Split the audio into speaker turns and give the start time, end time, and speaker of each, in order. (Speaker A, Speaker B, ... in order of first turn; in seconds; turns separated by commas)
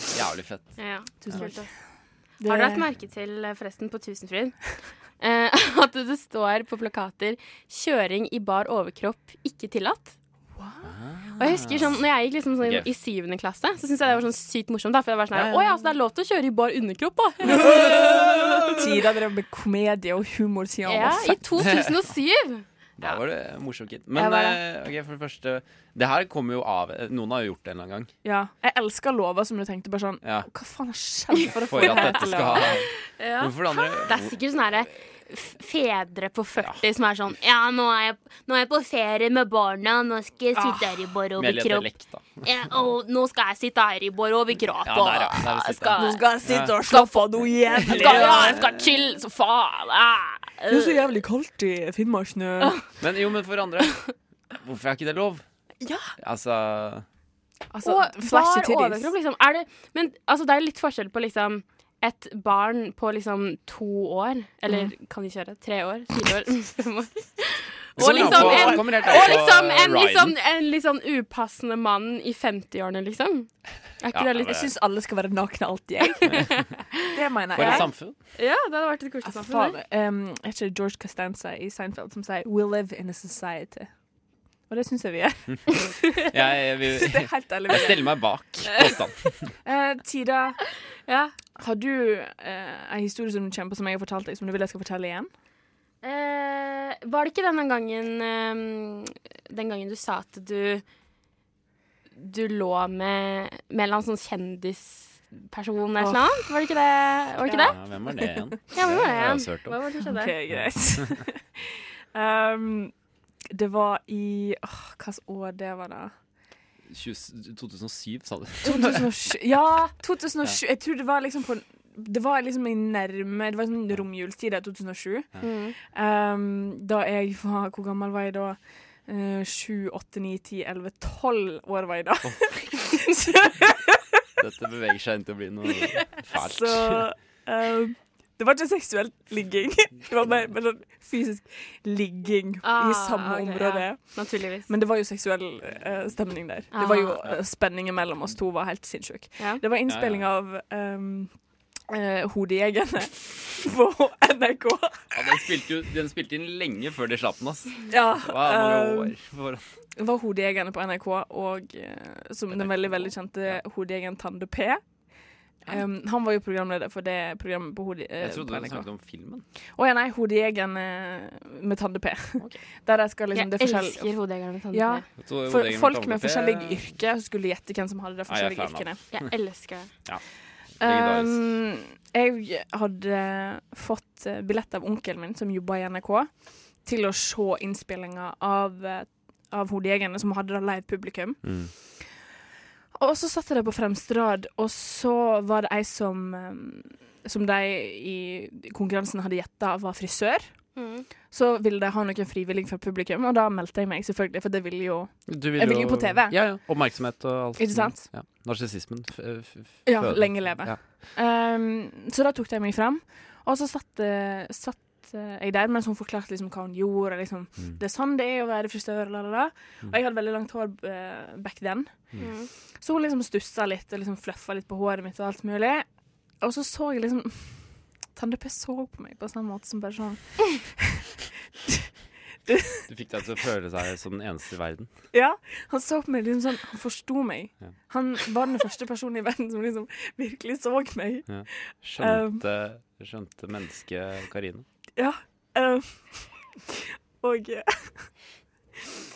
Speaker A: 0.1-1.5, Speaker B: 0.8-1.7, Speaker C: 1.2-1.7, Speaker C: 2.4-2.9, Speaker B: 2.4-10.1, Speaker C: 10.6-10.9, Speaker A: 10.8-12.0, Speaker B: 11.4-18.7, Speaker A: 12.6-12.9, Speaker A: 15.3-15.7, Speaker C: 17.5-21.4, Speaker A: 18.4-18.7, Speaker B: 20.9-23.2, Speaker A: 21.6-22.1, Speaker A: 23.0-28.1, Speaker B: 24.2-24.5, Speaker C: 28.2-32.8, Speaker A: 30.2-30.5, Speaker A: 31.6-34.4, Speaker B: 31.8-46.3, Speaker C: 40.5-40.9, Speaker A: 41.4-42.4, Speaker A: 44.8-46.8, Speaker C: 46.0-48.6, Speaker B: 46.8-50.9, Speaker A: 47.8-48.7, Speaker C: 50.7-52.8, Speaker A: 53.0-54.0, Speaker A: 54.5-55.5, Speaker A: 56.2-57.0, Speaker C: 57.7-59.1, Speaker B: 57.8-74.6, Speaker A: 68.0-70.4, Speaker C: 68.0-69.4, Speaker A: 74.1-74.6, Speaker C: 74.4-76.5, Speaker C: 77.0-77.9, Speaker A: 77.5-78.2, Speaker B: 77.6-79.8, Speaker C: 79.2-83.9, Speaker C: 84.7-86.3, Speaker A: 86.2-89.5, Speaker C: 86.9-88.2, Speaker C: 89.6-90.6, Speaker B: 91.0-91.3, Speaker C: 91.6-95.3, Speaker B: 96.0-100.8, Speaker B: 102.2-107.8, Speaker C: 106.0-106.2, Speaker C: 107.5-108.3, Speaker A: 107.6-109.8, Speaker B: 108.7-110.3, Speaker C: 110.0-112.9, Speaker A: 110.5-111.2, Speaker C: 113.5-116.1, Speaker A: 116.9-119.1, Speaker C: 118.6-134.0, Speaker B: 125.4-125.7, Speaker A: 132.2-132.6, Speaker A: 134.4-137.1, Speaker C: 136.2-151.3, Speaker B: 142.6-144.7, Speaker B: 146.7-147.2, Speaker A: 149.9-150.3, Speaker C: 151.9-155.4, Speaker A: 155.1-159.6, Speaker C: 157.9-159.2, Speaker C: 160.0-164.8, Speaker A: 162.5-163.6, Speaker C: 165.6-168.9, Speaker A: 168.2-169.4, Speaker C: 169.8-174.1, Speaker B: 173.3-175.0, Speaker C: 174.7-179.0, Speaker A: 175.2-176.8, Speaker A: 178.3-179.1, Speaker B: 179.1-179.9, Speaker A: 180.8-181.4, Speaker C: 180.8-191.5, Speaker A: 191.4-191.7, Speaker C: 192.9-206.9, Speaker B: 200.8-201.1, Speaker A: 205.3-210.8, Speaker C: 207.6-208.1, Speaker C: 209.9-222.2, Speaker B: 222.2-222.5, Speaker C: 222.8-225.8, Speaker C: 226.4-231.1, Speaker C: 232.5-232.8, Speaker A: 232.9-234.9, Speaker C: 235.1-242.4, Speaker A: 241.3-244.6, Speaker C: 245.0-248.1